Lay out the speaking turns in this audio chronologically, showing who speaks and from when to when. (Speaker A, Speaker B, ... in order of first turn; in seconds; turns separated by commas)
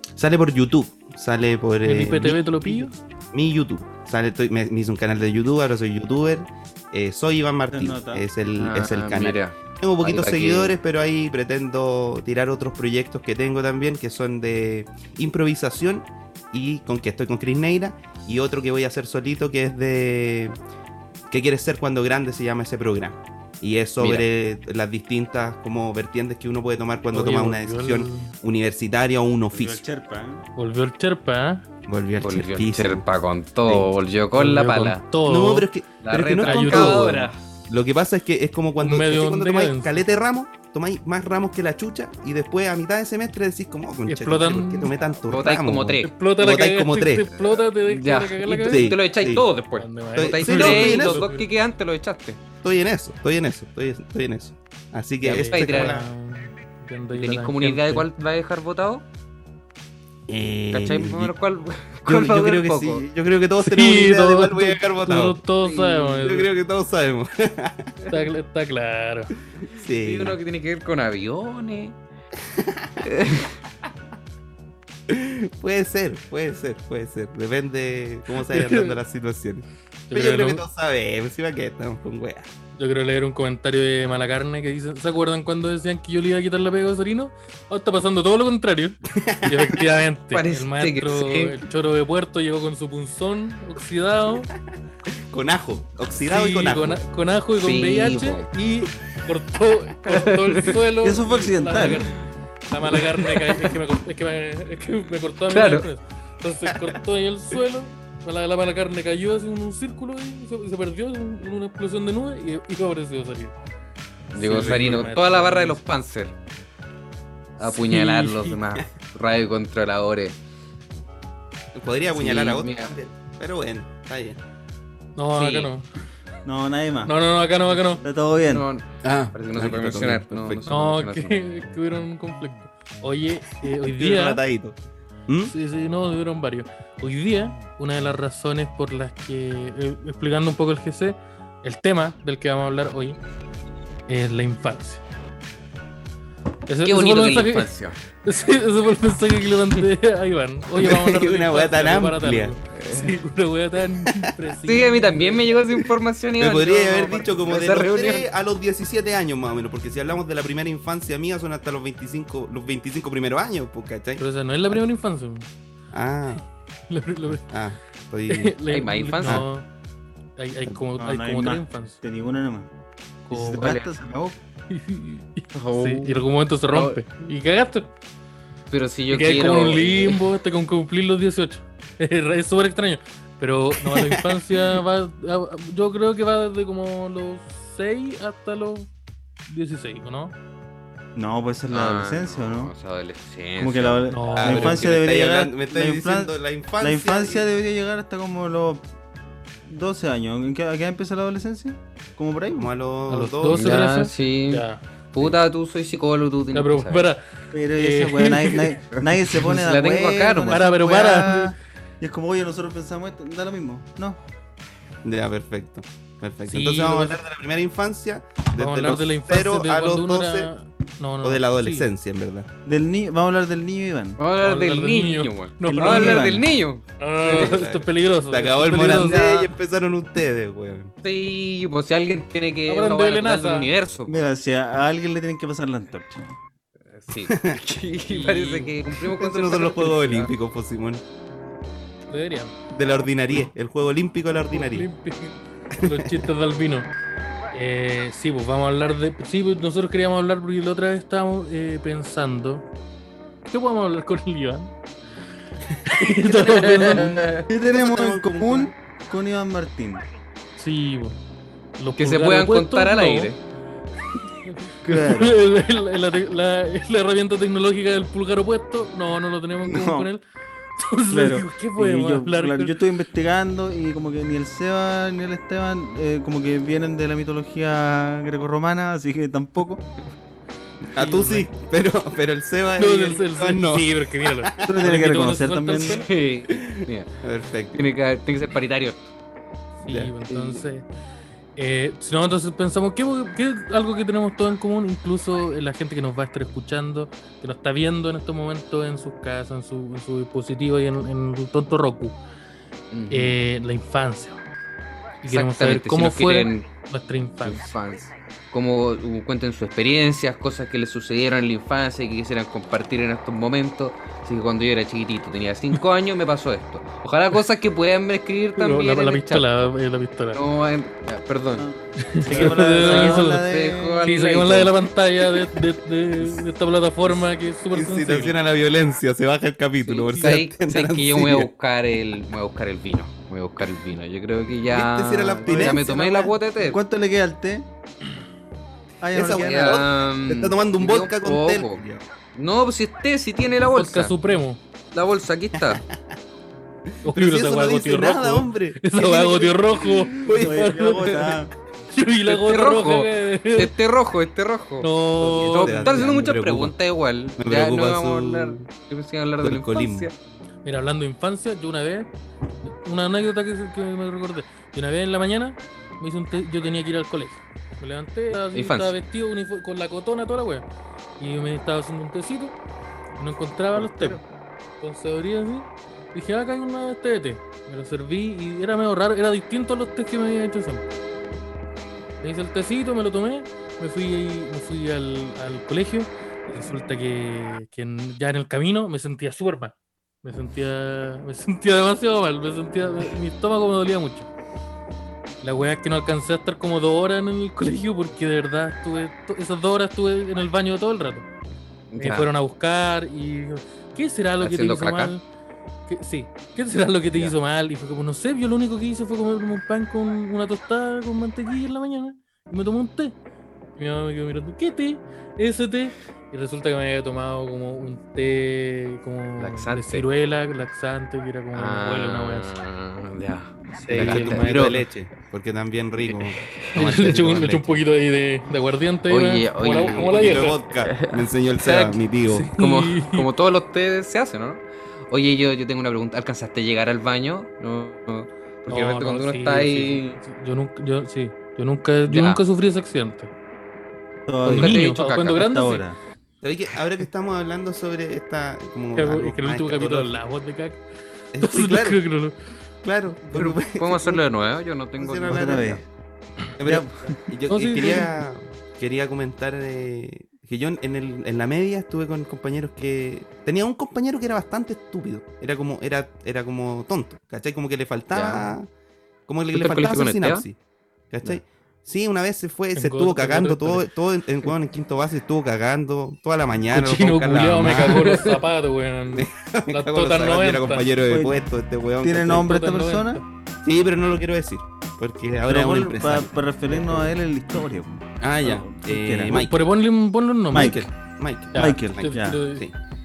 Speaker A: 0.1-20.6, Speaker B: 1.8-2.9, Speaker C: 7.7-8.2, Speaker D: 8.6-10.8, Speaker A: 21.3-29.8, Speaker D: 24.0-24.2, Speaker B: 27.1-28.3, Speaker C: 29.5-30.4, Speaker B: 30.6-31.6, Speaker A: 31.9-33.0, Speaker D: 32.2-35.0, Speaker B: 34.3-35.7, Speaker A: 35.2-47.2, Speaker D: 36.0-37.4, Speaker B: 36.4-37.3, Speaker B: 38.8-40.0, Speaker B: 44.1-44.9, Speaker D: 45.2-46.1, Speaker B: 46.0-48.9, Speaker D: 47.4-52.4, Speaker A: 48.6-49.4, Speaker B: 49.8-51.5, Speaker A: 50.1-51.2, Speaker A: 52.6-56.1, Speaker D: 55.2-56.0, Speaker B: 55.4-58.1, Speaker D: 57.1-59.0, Speaker A: 60.3-61.3, Speaker D: 60.7-63.0, Speaker A: 62.1-65.4, Speaker B: 63.6-66.5, Speaker D: 65.6-66.2, Speaker A: 66.2-67.9, Speaker B: 68.1-69.3, Speaker A: 69.7-70.4, Speaker D: 69.9-72.0, Speaker A: 72.5-73.0, Speaker D: 73.0-73.5, Speaker A: 75.1-82.5, Speaker B: 78.3-79.0, Speaker B: 80.1-80.6, Speaker B: 82.8-94.5, Speaker A: 89.1-89.7, Speaker D: 90.3-91.6, Speaker A: 95.3-97.0, Speaker B: 96.2-113.5, Speaker D: 97.5-98.5, Speaker D: 100.0-100.8, Speaker C: 101.0-102.1, Speaker D: 102.8-103.8, Speaker D: 105.5-105.9, Speaker D: 114.3-116.3, Speaker B: 114.3-115.8, Speaker A: 114.4-115.1, Speaker D: 117.6-120.3, Speaker B: 117.6-118.6, Speaker A: 121.7-124.4, Speaker D: 122.1-122.9, Speaker B: 125.2-125.9, Speaker D: 125.3-125.7, Speaker C: 126.4-127.1, Speaker B: 127.0-128.0, Speaker C: 128.0-128.7, Speaker D: 128.5-131.4, Speaker A: 129.0-130.7, Speaker B: 130.7-134.4, Speaker A: 133.8-134.8, Speaker A: 135.3-135.5, Speaker B: 135.4-143.2, Speaker B: 144.1-145.0, Speaker B: 146.7-147.7, Speaker D: 146.8-148.0, Speaker B: 148.2-155.6, Speaker A: 150.8-152.6, Speaker D: 152.7-153.1, Speaker D: 154.6-158.3, Speaker A: 156.4-164.2, Speaker B: 164.2-165.5, Speaker A: 165.9-166.4, Speaker B: 166.9-167.5, Speaker A: 167.4-168.5, Speaker B: 168.3-169.7, Speaker D: 168.7-169.4, Speaker B: 170.4-172.0, Speaker C: 171.0-172.7, Speaker B: 173.2-173.7, Speaker C: 173.3-174.4, Speaker D: 173.6-173.9, Speaker B: 174.7-177.9, Speaker D: 175.5-177.0, Speaker D: 178.7-180.2, Speaker B: 179.1-188.9, Speaker B: 189.5-190.3, Speaker C: 191.2-192.7, Speaker D: 191.7-194.8, Speaker C: 193.6-198.8, Speaker B: 194.1-194.8, Speaker A: 194.4-197.4, Speaker C: 199.7-202.7, Speaker A: 202.5-203.8, Speaker B: 203.1-204.8, Speaker D: 203.5-207.1, Speaker B: 206.5-208.8, Speaker C: 207.5-214.2, Speaker D: 209.3-210.7, Speaker B: 210.5-211.5, Speaker A: 215.0-220.5, Speaker B: 216.5-217.2, Speaker B: 218.5-221.9, Speaker A: 221.2-222.5, Speaker C: 222.6-224.2, Speaker D: 224.2-227.7, Speaker B: 224.4-226.3, Speaker C: 225.7-226.5, Speaker B: 227.0-229.5, Speaker A: 227.3-230.9, Speaker D: 231.0-234.2, Speaker B: 232.7-233.7, Speaker C: 234.1-236.3, Speaker D: 236.9-240.3, Speaker A: 237.3-237.6, Speaker B: 238.1-238.7, Speaker A: 239.0-241.0, Speaker B: 242.1-242.5, Speaker A: 242.7-244.9, Speaker B: 244.5-246.9, Speaker A: 245.8-246.1, Speaker B: 247.5-252.6, Speaker B: 253.5-254.7, Speaker B: 255.8-257.4, Speaker D: 256.3-257.4, Speaker C: 257.3-260.0, Speaker A: 257.5-258.7, Speaker B: 260.6-261.2, Speaker B: 261.8-263.3, Speaker D: 262.0-263.4, Speaker B: 264.5-270.2, Speaker C: 264.8-265.4, Speaker C: 269.6-270.1, Speaker B: 270.8-272.8, Speaker C: 271.1-279.8, Speaker A: 280.9-284.7, Speaker B: 280.9-281.5, Speaker B: 282.8-286.1, Speaker C: 284.6-286.0, Speaker D: 285.8-287.2, Speaker A: 286.5-287.8, Speaker D: 287.7-289.1, Speaker B: 289.8-290.9, Speaker A: 289.9-290.1, Speaker D: 290.3-290.6, Speaker B: 291.6-302.2, Speaker D: 302.9-303.3, Speaker B: 303.1-304.4, Speaker B: 305.2-307.7, Speaker D: 305.2-306.7, Speaker D: 307.4-319.5, Speaker B: 318.6-320.4, Speaker D: 320.3-321.6, Speaker C: 321.6-324.2, Speaker B: 322.0-323.4, Speaker D: 322.3-324.8, Speaker B: 324.0-328.4, Speaker A: 327.7-331.5, Speaker D: 329.8-336.8, Speaker A: 334.7-336.3, Speaker C: 335.5-335.8, Speaker C: 336.6-337.7, Speaker C: 339.0-339.8, Speaker A: 339.1-342.0, Speaker D: 339.3-341.8, Speaker D: 342.3-344.1, Speaker B: 343.7-344.6, Speaker D: 344.9-345.8, Speaker A: 345.6-345.9, Speaker A: 347.0-350.8, Speaker B: 347.0-351.4, Speaker C: 350.3-351.5, Speaker B: 351.9-353.7, Speaker D: 352.2-360.1, Speaker B: 354.8-356.1, Speaker A: 355.2-356.7, Speaker A: 357.4-358.6, Speaker A: 359.4-360.1, Speaker B: 360.6-362.1, Speaker B: 362.6-370.6, Speaker D: 368.5-369.0, Speaker B: 371.2-372.6, Speaker B: 373.2-374.2, Speaker C: 373.8-374.2, Speaker B: 374.8-380.8, Speaker B: 382.2-394.3, Speaker B: 395.4-401.3, Speaker D: 401.9-402.3, Speaker B: 402.0-405.2, Speaker D: 404.4-405.1, Speaker B: 405.9-413.1, Speaker B: 413.8-422.5, Speaker D: 419.4-420.1, Speaker D: 421.5-424.8, Speaker B: 423.7-424.9, Speaker A: 424.0-427.8, Speaker D: 426.0-427.3, Speaker B: 426.7-430.6, Speaker D: 429.1-432.0, Speaker A: 430.0-432.5, Speaker B: 432.3-433.2, Speaker D: 432.5-440.2, Speaker B: 438.7-443.3, Speaker D: 442.1-442.4, Speaker C: 444.3-446.0, Speaker B: 444.4-445.8, Speaker D: 444.5-445.4, Speaker A: 446.4-450.2, Speaker B: 448.9-450.8, Speaker A: 451.3-452.0, Speaker B: 451.4-452.3, Speaker A: 452.8-454.2, Speaker D: 453.3-455.8, Speaker A: 455.0-455.8, Speaker C: 455.2-455.8, Speaker A: 456.6-468.7, Speaker C: 456.6-457.2, Speaker B: 457.5-458.2, Speaker D: 468.1-468.5, Speaker A: 469.3-470.6, Speaker D: 469.5-470.4, Speaker A: 471.1-478.2, Speaker B: 472.7-473.9, Speaker B: 476.7-480.9, Speaker D: 478.0-478.3, Speaker A: 479.1-482.5, Speaker C: 481.1-481.4, Speaker C: 482.0-483.2, Speaker B: 482.2-483.2, Speaker A: 483.6-487.1, Speaker C: 485.4-489.5, Speaker A: 488.2-489.6, Speaker B: 489.3-490.8, Speaker C: 490.5-490.9, Speaker A: 490.5-492.7, Speaker B: 491.5-492.6, Speaker C: 491.5-492.4